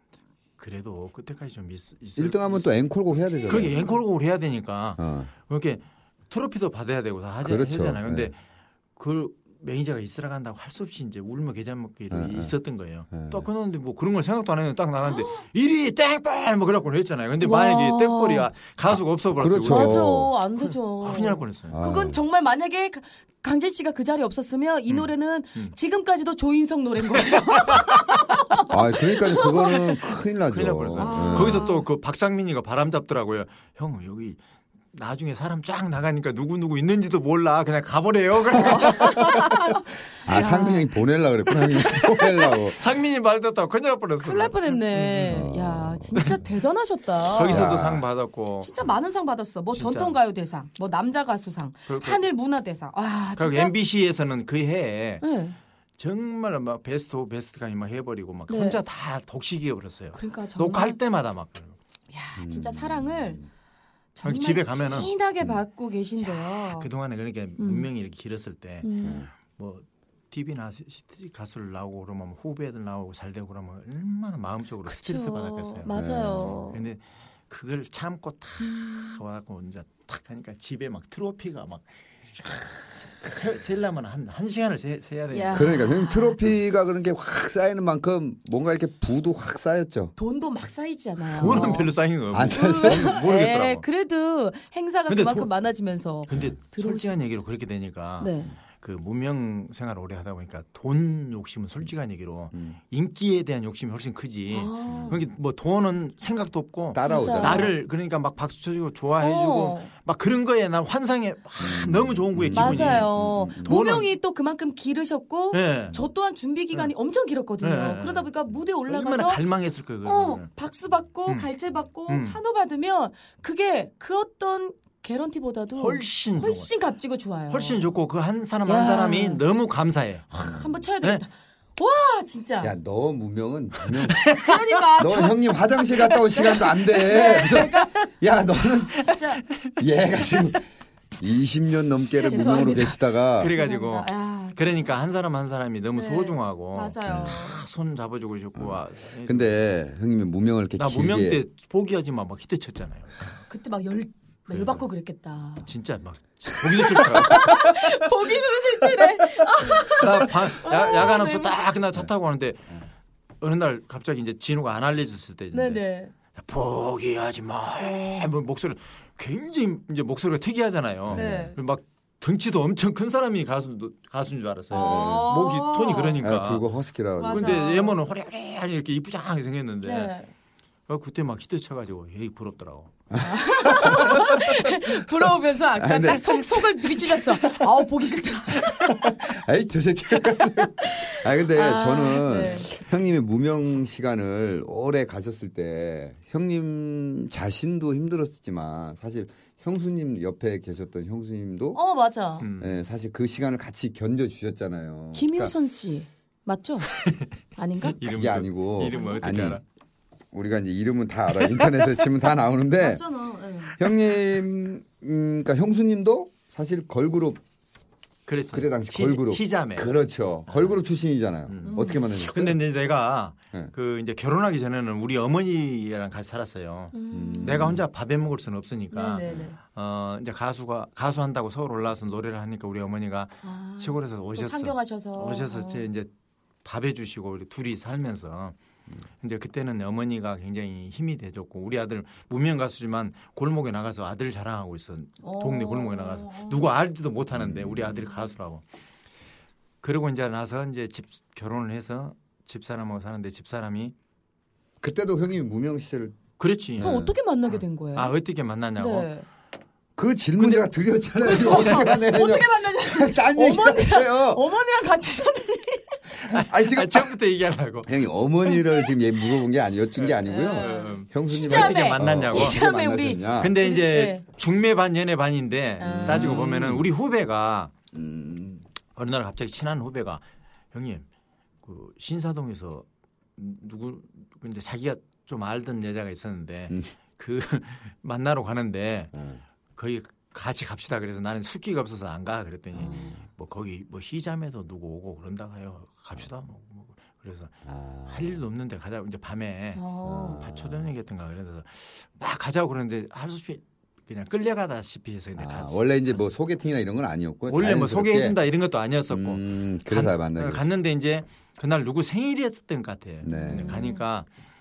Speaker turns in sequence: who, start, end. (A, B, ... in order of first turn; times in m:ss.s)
0:00.6-0:02.7 A
0:02.2-0:03.9 B
0:03.4-0:08.4 A
0:05.0-0:05.3 B
0:07.4-0:08.3 B
0:09.0-0:20.1 A
0:12.1-0:12.5 B
0:13.1-0:13.4 B
0:17.4-0:18.5 C
0:18.9-0:20.3 B
0:19.6-0:29.8 C
0:20.9-0:21.8 A
0:21.7-0:22.2 B
0:24.9-0:25.8 A
0:27.2-0:28.0 A
0:28.7-0:31.7 B
0:30.5-0:34.4 A
0:31.0-0:31.9 C
0:34.9-0:39.8 A
0:38.6-0:40.9 C
0:40.2-0:42.8 B
0:42.2-0:42.5 C
0:42.7-0:45.4 A
0:44.2-0:47.7 C
0:45.3-0:46.2 B
0:47.2-0:48.7 A
0:47.5-0:48.0 B
0:48.6-0:53.7 C
0:49.7-0:50.2 A
0:51.9-0:52.2 A
0:53.4-0:55.2 A
0:55.2-0:55.6 C
0:56.0-1:01.8 A
0:58.5-0:58.8 C
1:00.1-1:01.0 C
1:02.1-1:03.4 C
1:02.4-1:03.4 B
1:04.1-1:06.9 C
1:04.2-1:05.1 A
1:06.2-1:25.9 A
1:07.6-1:07.9 C
1:08.8-1:09.2 C
1:09.0-1:09.3 B
1:14.9-1:16.8 C
1:15.9-1:16.6 B
1:25.3-1:26.4 C
1:25.5-1:30.1 B
1:30.2-1:31.9 C
1:31.3-1:33.8 A
1:31.4-1:33.2 B
1:32.5-1:37.1 C
1:35.1-1:35.5 A
1:36.3-1:54.1 A
1:38.2-1:38.5 C
1:44.5-1:45.2 C
1:44.9-1:45.2 B
1:46.9-1:47.7 B
1:47.1-1:47.7 C
1:49.2-1:49.9 C
1:51.6-1:53.8 B
1:52.5-1:59.4 C
1:55.5-1:56.0 A
1:57.6-1:58.3 A
1:58.9-2:00.5 A
2:00.0-2:07.9 C
2:02.1-2:02.4 A
2:05.8-2:06.7 A
2:07.5-2:11.2 A
2:08.6-2:09.4 C
2:10.3-2:12.7 C
2:12.6-2:14.3 B
2:13.8-2:14.6 A
2:14.3-2:15.4 C
2:15.0-2:19.1 B
2:16.0-2:18.0 C
2:18.6-2:19.4 C
2:19.1-2:19.7 A
2:19.8-2:20.7 B
2:21.2-2:23.5 B
2:22.2-2:24.6 C
2:22.3-2:22.8 A
2:23.3-2:29.6 A
2:25.9-2:27.6 C
2:27.1-2:27.4 B
2:28.6-2:31.4 B
2:30.8-2:33.3 A
2:33.5-2:35.7 C
2:34.5-2:34.8 A
2:35.7-2:37.9 A
2:36.7-2:41.6 C
2:39.9-2:42.7 A
2:43.4-2:45.8 A
2:45.5-2:46.1 C
2:46.3-2:56.6 A
2:51.1-2:51.5 B
2:51.1-2:51.6 C
2:54.7-2:56.2 C
2:54.7-2:55.3 B
2:56.2-2:57.6 B
2:57.2-2:58.0 C
2:57.3-3:00.1 A
2:59.8-3:00.3 C
3:00.9-3:02.9 A
3:03.1-3:04.3 B
3:03.2-3:09.2 C
3:03.8-3:04.1 A
3:05.8-3:07.6 B
3:08.6-3:21.8 B
3:10.8-3:12.7 C
3:12.4-3:12.6 A
3:21.7-3:22.5 C
3:22.4-3:22.8 A
3:22.6-3:25.5 B
3:25.2-3:26.9 C
3:26.9-3:27.3 A
3:27.6-3:28.0 C
3:27.9-3:29.6 A
3:28.0-3:29.6 B
3:28.9-3:29.2 C
3:30.3-3:33.0 B
3:31.4-3:31.9 A
3:32.8-3:33.8 C
3:33.8-3:37.4 B
3:38.3-3:39.9 A
3:38.5-3:42.6 B
3:40.5-3:40.8 A
3:41.5-3:56.1 A
3:41.7-3:42.0 C
3:46.9-3:47.7 C
3:47.1-3:47.8 B
3:48.9-3:49.6 C
3:53.4-3:55.8 C
3:56.6-3:58.6 A
3:59.2-4:08.6 A
4:05.2-4:06.7 C
4:07.3-4:08.0 B
4:09.8-4:13.9 A
4:14.8-4:16.2 B
4:16.4-4:17.0 A
4:16.8-4:17.2 B
4:16.8-4:18.2 C
4:17.9-4:19.1 A
4:18.8-4:19.2 C
4:20.0-4:24.4 B
4:20.4-4:20.7 A
4:21.2-4:26.0 C
4:21.2-4:21.8 A
4:26.2-4:27.9 A
4:26.3-4:27.1 B
4:27.8-4:33.6 B
4:29.9-4:32.6 A
4:30.2-4:34.2 C
4:33.4-4:37.7 A
4:35.8-4:36.4 C
4:35.8-4:36.9 B
4:37.9-4:38.6 B
4:39.0-4:41.1 A
4:41.6-4:42.8 A
4:43.4-4:49.2 A
4:49.1-4:49.4 B
4:49.7-5:06.3 A
4:52.8-4:53.2 B
4:52.8-4:53.2 C
4:57.7-4:58.4 B
4:59.7-5:00.4 C
5:00.0-5:00.9 B
5:05.4-5:08.4 B
5:07.5-5:14.3 A
5:09.1-5:10.6 B
5:13.2-5:13.9 B
5:13.3-5:14.0 C